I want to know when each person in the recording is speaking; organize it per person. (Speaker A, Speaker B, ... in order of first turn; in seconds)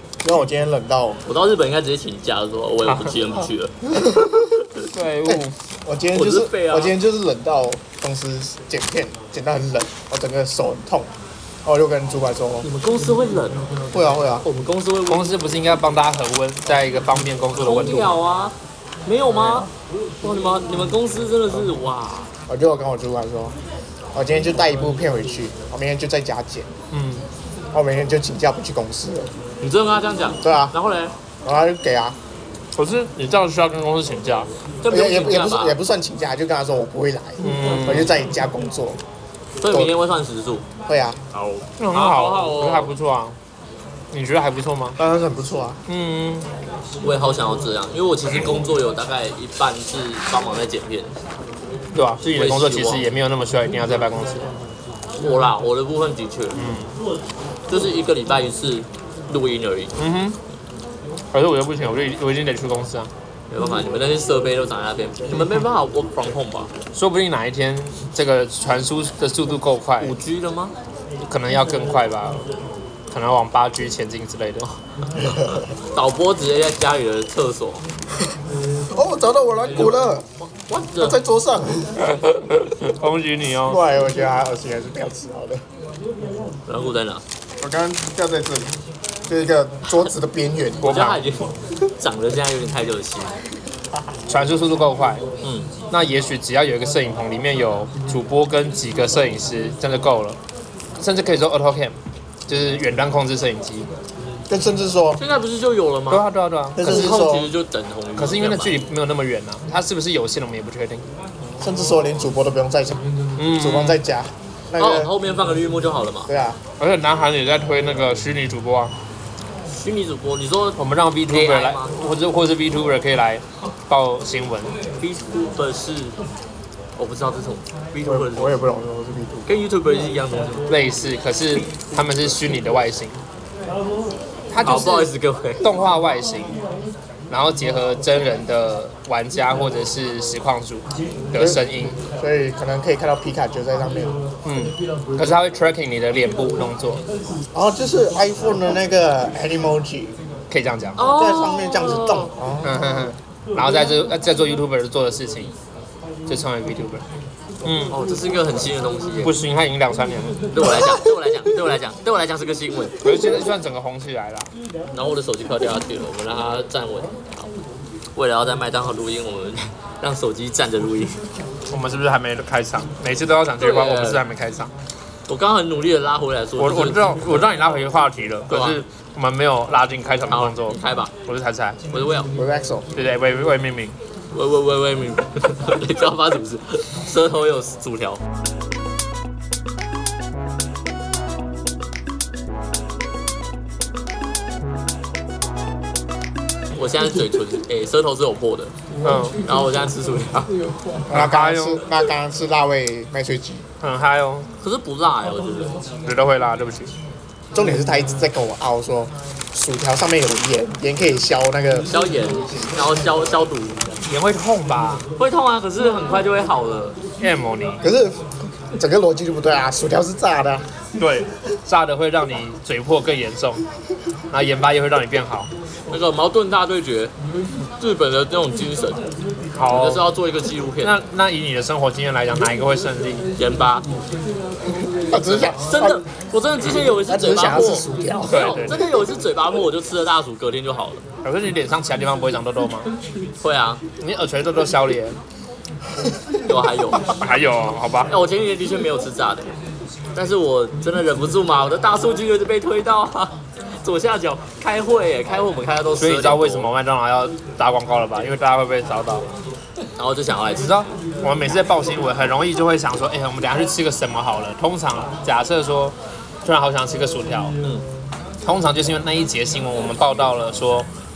Speaker A: 0.2-1.2, 3.9-4.6, 5.2-11.1, 11.6-12.7, 13.9-14.4, 22.5-23.5, 24.1-26.7, 27.7-29.3, 30.4-30.7, 31.4-32.2, 34.9-39.0, 40.9-41.2, 45.0-45.8, 78.9-80.2, 81.0-82.0, 83.7-85.6, 87.6-88.8, 89.3-90.9, 104.5-105.2, 106.8-107.5, 111.6-113.0, 113.5-115.1, 116.3-116.6, 128.0-129.5, 141.3-141.6, 142.2-144.2, 147.5-150.1, 151.1-152.8, 182.3-182.9, 201.1-203.7, 207.5-211.9, 217.8-218.2, 218.8-220.7, 235.1-236.0, 236.9-238.6
Speaker B: 1.2-3.8, 6.1-7.0, 12.6-13.7, 14.4-15.3, 17.6-19.7, 20.2-22.3, 29.6-31.1, 34.8-35.8, 39.6-40.6, 41.3-42.9, 47.0-51.1, 52.2-53.0, 55.2-56.6, 57.7-59.9, 63.5-66.7, 70.0-70.7, 75.9-77.8, 80.6-81.2, 86.7-87.2, 90.8-93.3, 95.4-95.7, 105.2-106.2, 106.8-108.8, 114.8-116.3, 119.7-120.8, 121.3-121.9, 125.0-126.2, 127.0-128.6, 129.4-130.7, 134.6-135.7, 151.0-152.3, 157.9-159.3, 160.5-163.0, 164.9-167.5, 168.2-171.2, 173.6-174.2, 175.3-177.4, 178.5-178.8, 180.3-181.1, 181.9-182.3, 184.3-188.2, 196.8-198.7, 199.4-200.5, 204.6-205.8, 211.9-213.8, 215.2-216.9, 225.9-227.1, 227.8-229.0, 229.7-230.9, 233.4-233.8, 235.7-241.0, 243.4-243.8, 246.5-247.1, 248.1-249.5, 250.1-256.7, 260.0-260.7
Speaker C: 2.8-3.3, 4.8-5.5, 15.1-18.1, 19.3-19.7, 26.9-27.2, 32.8-34.5, 37.4-38.1, 41.8-43.4, 44.1-45.0, 45.9-46.5, 51.9-54.5, 56.5-56.9, 60.0-60.4, 61.3-63.1, 66.9-70.1, 71.2-72.4, 73.1-74.7, 82.6-83.8, 90.8-91.2, 94.3-95.2, 95.9-100.4, 101.0-101.9, 102.5-103.9, 106.1-107.2, 108.2-111.0, 113.4-114.0, 116.8-118.9, 120.8-124.8, 130.7-133.2, 134.5-135.1, 135.6-136.6, 137.3-142.0, 144.4-147.0, 150.5-151.1, 152.6-155.5, 156.3-157.0, 157.6-157.9, 159.2-160.4, 163.0-164.5, 171.7-174.7, 176.6-181.8, 182.9-183.9, 199.0-199.4, 201.1-201.8, 203.8-204.5, 206.0-206.9, 214.1-215.1, 217.2-217.8, 221.0-223.6, 224.3-225.5, 229.6-230.1, 230.8-233.2, 238.3-238.8, 241.2-242.9, 244.0-245.2, 247.1-248.1, 256.0-259.2, 260.6-267.5, 268.4-270.9